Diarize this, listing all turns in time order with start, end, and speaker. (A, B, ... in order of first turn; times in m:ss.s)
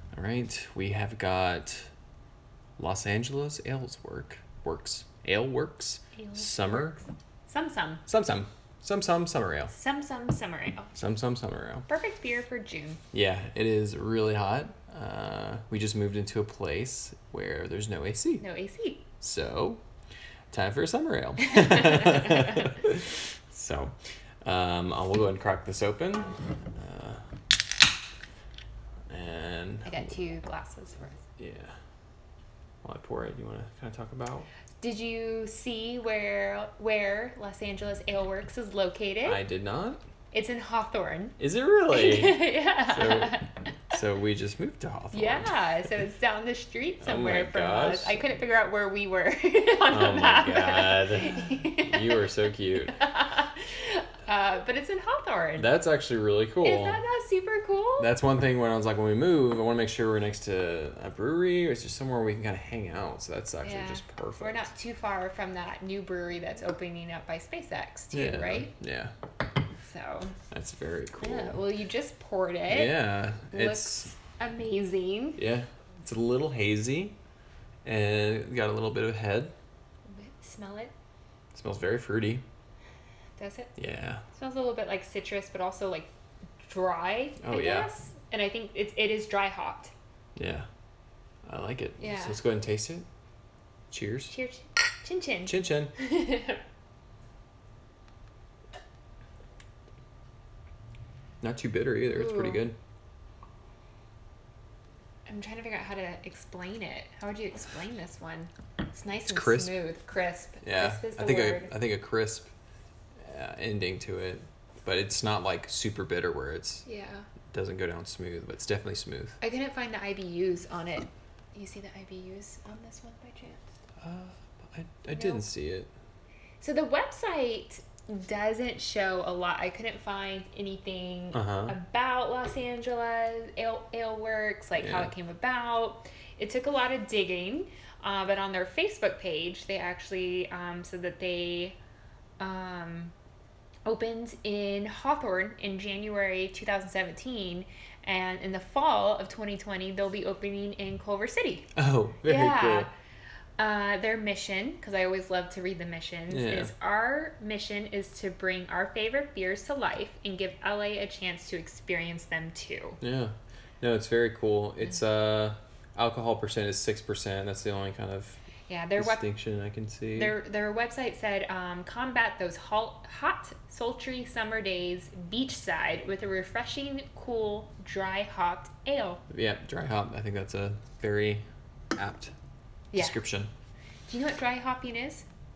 0:00.1-0:01.9 A
0:02.8-0:07.0 A
0:06.2-0:08.0 B
0:08.1-0:09.7 A
0:09.7-0:10.9 B
0:11.0-0:11.9 A
0:11.9-0:13.0 B
0:13.1-0:18.4 A
0:18.4-0:19.1 B
0:19.2-0:19.8 A
0:20.5-0:23.9 A
0:24.4-0:27.2 A
0:29.1-0:30.1 A
0:29.8-0:31.2 B
0:31.4-0:31.8 A
0:32.8-0:34.5 A
0:34.8-0:39.4 B
0:39.2-0:40.0 A
0:40.3-0:41.4 B
0:41.4-0:45.5 A
0:41.9-0:43.5 B
0:45.1-0:52.3 B
0:47.0-0:48.2 A
0:49.9-0:53.0 A
0:52.9-0:55.7 B
0:55.6-0:57.0 A
0:56.6-0:58.1 B
0:58.0-1:04.7 A
1:03.6-1:08.7 B
1:08.1-1:09.1 A
1:09.8-1:10.4 B
1:10.5-1:11.6 A
1:11.2-1:15.4 B
1:12.7-1:14.1 A
1:15.4-1:17.2 A
1:17.8-1:19.5 A
1:20.1-1:20.9 B
1:21.5-1:22.4 A
1:23.4-1:23.7 B
1:23.8-1:24.2 A
1:24.4-1:26.1 B
1:26.6-1:29.9 B
1:27.4-1:27.9 A
1:30.4-1:30.7 A
1:31.5-1:33.1 A
1:32.0-1:32.4 B
1:33.9-1:34.3 A
1:34.3-1:36.6 B
1:35.5-1:35.9 A
1:41.4-1:42.8 A
1:42.1-1:42.6 B
1:45.3-1:51.7 B
1:49.3-1:49.7 A
1:50.6-1:52.5 A
1:53.2-1:56.9 A
1:56.9-1:57.3 B
1:57.5-1:59.4 A
1:59.4-2:03.6 B
2:04.0-2:05.9 A
2:05.1-2:05.5 B
2:06.6-2:21.8 B
2:11.3-2:11.8 A
2:14.8-2:15.1 A
2:22.4-2:23.1 B
2:23.8-2:31.7 B
2:31.8-2:32.9 A
2:32.2-2:32.9 B
2:33.6-2:43.0 B
2:36.3-2:36.7 A
2:43.0-2:48.4 A
2:48.7-2:49.3 B
2:49.0-2:50.4 A
2:50.2-2:59.2 B
2:59.3-3:01.4 A
3:02.0-3:02.3 A
3:03.0-3:03.5 A
3:04.1-3:05.3 B